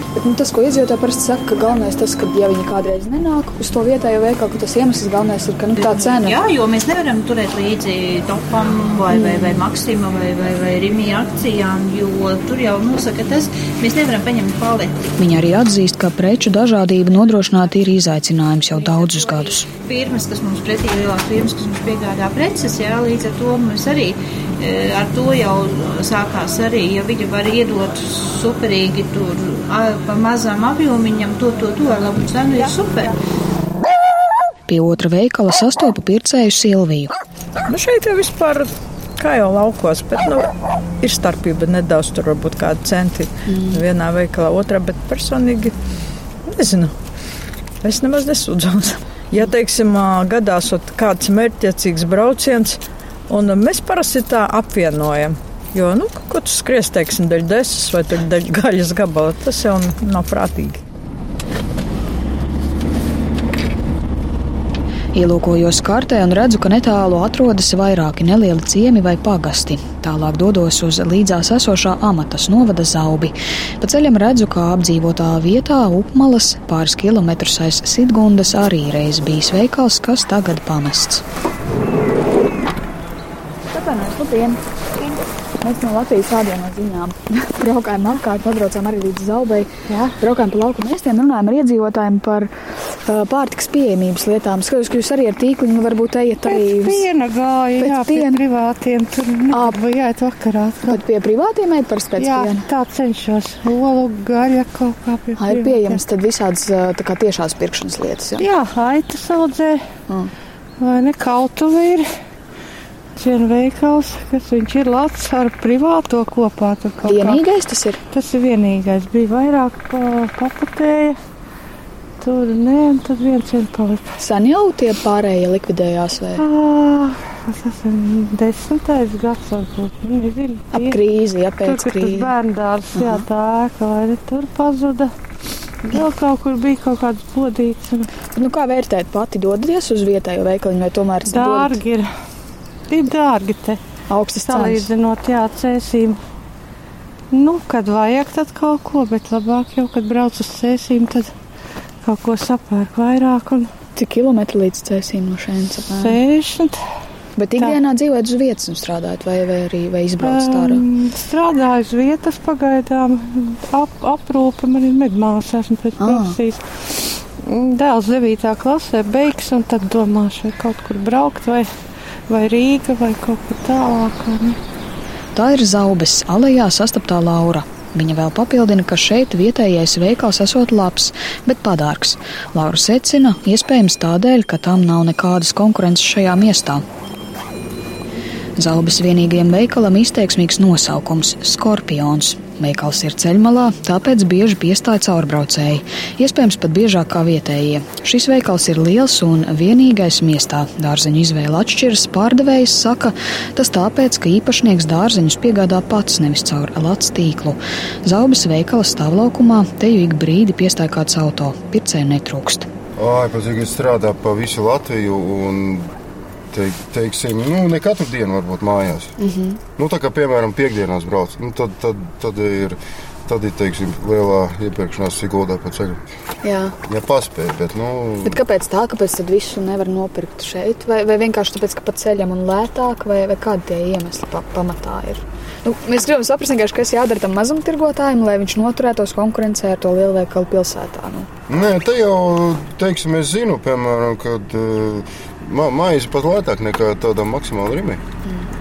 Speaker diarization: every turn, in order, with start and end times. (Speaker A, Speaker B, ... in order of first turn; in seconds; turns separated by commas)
Speaker A: 0.2-6.4, Speaker B: 5.8-15.1, Speaker A: 9.1-9.6, Speaker C: 15.2-19.7, Speaker B: 18.8-33.1, Speaker C: 34.7-37.1, Speaker D: 37.7-38.7, Speaker D: 39.2-40.5, Speaker D: 41.0-45.7, Speaker A: 43.5-43.8, Speaker D: 46.5-46.9, Speaker D: 47.8-52.8, Speaker D: 53.3-60.8, Speaker C: 65.1-81.2, Speaker A: 83.7-92.5, Speaker E: 89.9-90.2, Speaker A: 93.0-97.1, Speaker E: 96.4-101.0, Speaker A: 97.8-98.4, Speaker A: 99.5-99.8, Speaker A: 100.8-102.7, Speaker E: 102.2-106.0, Speaker A: 105.4-108.5, Speaker E: 108.4-109.8, Speaker E: 110.8-112.0, Speaker E: 113.2-117.4, Speaker A: 117.0-118.0, Speaker E: 118.1-121.2, Speaker E: 122.2-124.0, Speaker A: 124.2-126.5, Speaker E: 126.4-131.0, Speaker A: 130.7-132.3, Speaker E: 131.6-135.1, Speaker A: 133.0-133.2, Speaker E: 135.8-138.1, Speaker A: 138.4-141.8, Speaker E: 141.2-142.1, Speaker E: 142.9-143.8, Speaker A: 144.1-144.9, Speaker E: 144.4-146.2, Speaker E: 147.3-151.3, Speaker E: 152.0-153.7, Speaker A: 154.0-156.2, Speaker E: 155.9-156.8, Speaker A: 157.4-160.8, Speaker E: 160.2-166.6, Speaker A: 166.0-166.4, Speaker E: 167.4-171.7, Speaker E: 172.3-174.6, Speaker C: 175.3-186.8, Speaker C: 188.6-212.7, Speaker F: 213.0-215.9, Speaker F: 216.5-219.1, Speaker A: 219.2-219.6, Speaker F: 219.8-226.0, Speaker A: 226.4-226.8, Speaker F: 226.9-228.3, Speaker A: 228.2-241.3, Speaker F: 241.5-248.0